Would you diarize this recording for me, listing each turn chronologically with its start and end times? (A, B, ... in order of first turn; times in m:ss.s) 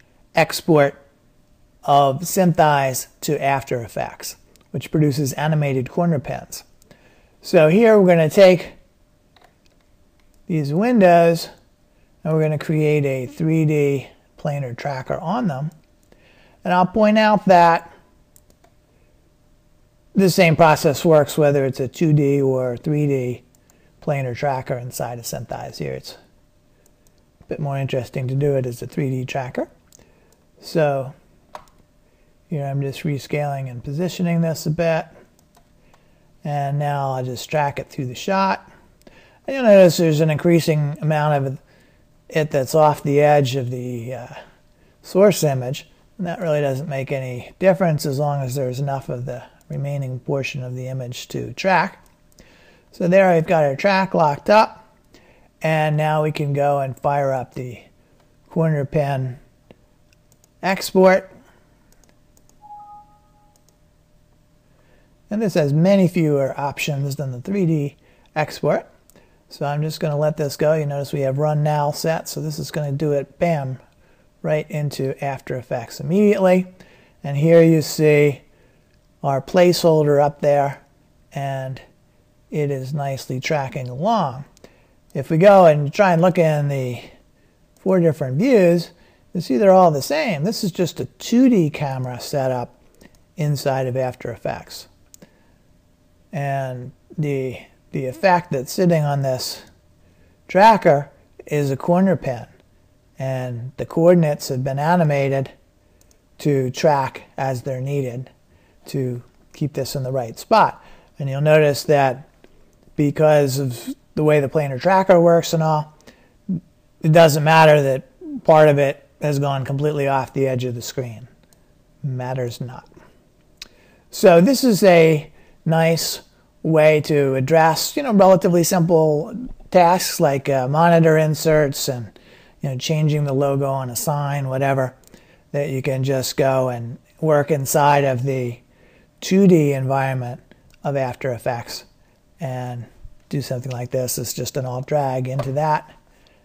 0:00.4-0:01.0 A
0:01.8-0:06.6 A
0:07.4-0:08.8 A
0:10.5-0:11.5 A
0:12.2-0:15.7 A
0:16.6-0:17.9 A
0:20.2-0:23.4 A
0:24.0-0:26.2 A
0:27.5-0:29.7 A
0:30.6-0:31.1 A
0:32.5-0:35.1 A
0:36.4-0:38.6 A
0:39.5-0:41.6 A
0:42.3-0:44.4 A
0:45.0-0:52.0 A
0:52.9-0:54.9 A
0:55.6-0:57.9 A
0:58.5-0:59.4 A
1:00.6-1:01.3 A
1:05.3-1:08.9 A
1:09.5-1:13.8 A
1:14.4-1:16.7 A
1:17.2-1:18.4 A
1:19.2-1:20.8 A
1:21.3-1:21.8 A
1:22.5-1:24.5 A
1:25.1-1:27.1 A
1:27.8-1:32.8 A
1:33.4-1:34.9 A
1:36.3-1:39.7 A
1:40.5-1:42.5 A
1:43.2-1:45.5 A
1:46.4-1:48.3 A
1:48.9-1:52.3 A
1:53.0-1:55.9 A
1:56.6-2:01.3 A
2:02.0-2:02.9 A
2:04.1-2:14.9 A
2:15.5-2:18.6 A
2:19.2-2:21.8 A
2:22.4-2:25.9 A